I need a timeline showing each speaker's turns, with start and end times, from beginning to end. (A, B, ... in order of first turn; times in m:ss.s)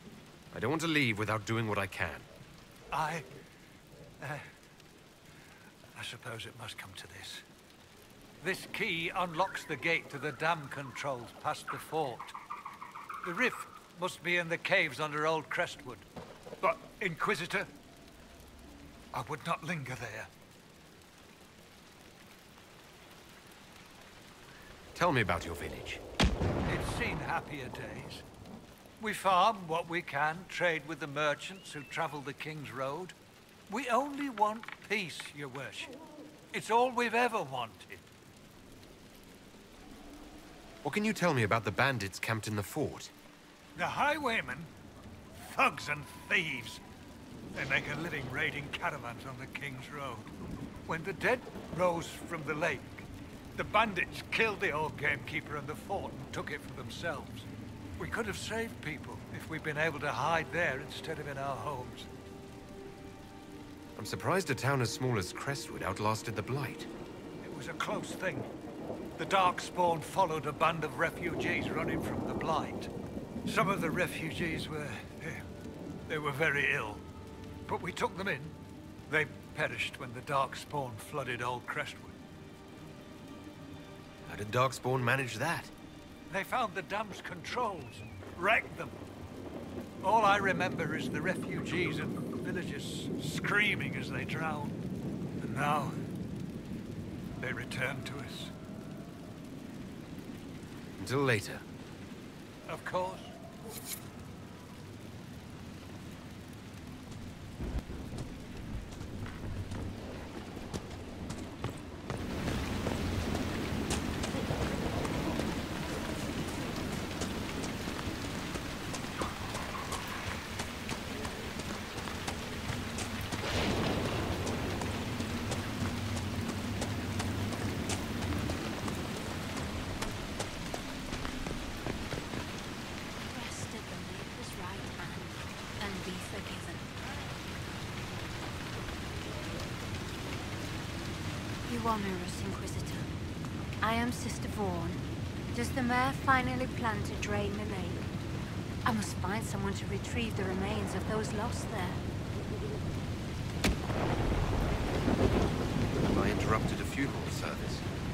0:00.5-0:02.3 A
0:02.9-0:03.3 B
0:04.2-0:04.4 B
0:06.0-0:07.4 B
0:08.4-0:12.4 B
0:13.2-0:16.1 B
0:16.6-0:17.7 B
0:19.1-0:20.3 B
0:25.0-0:26.0 A
0:26.7-0:28.2 B
0:29.0-0:33.2 B
0:33.7-0:36.0 B
0:36.5-0:38.0 B
0:40.8-0:43.1 A
0:43.8-0:44.7 B
0:45.4-0:46.8 B
0:47.5-0:50.3 B
0:50.9-0:57.5 B
0:58.0-1:02.1 B
1:04.0-1:06.9 A
1:07.4-1:08.5 B
1:09.2-1:12.9 B
1:13.5-1:15.4 B
1:16.1-1:17.0 B
1:17.7-1:18.6 B
1:19.1-1:22.2 B
1:24.3-1:25.7 A
1:26.3-1:29.0 B
1:30.0-1:34.8 B
1:35.4-1:36.0 B
1:37.4-1:38.5 B
1:41.0-1:41.6 A
1:42.7-1:43.3 B
2:13.3-2:16.9 C
2:21.7-2:23.2 C
2:23.8-2:28.0 C
2:28.8-2:32.0 C
2:36.0-2:37.8 A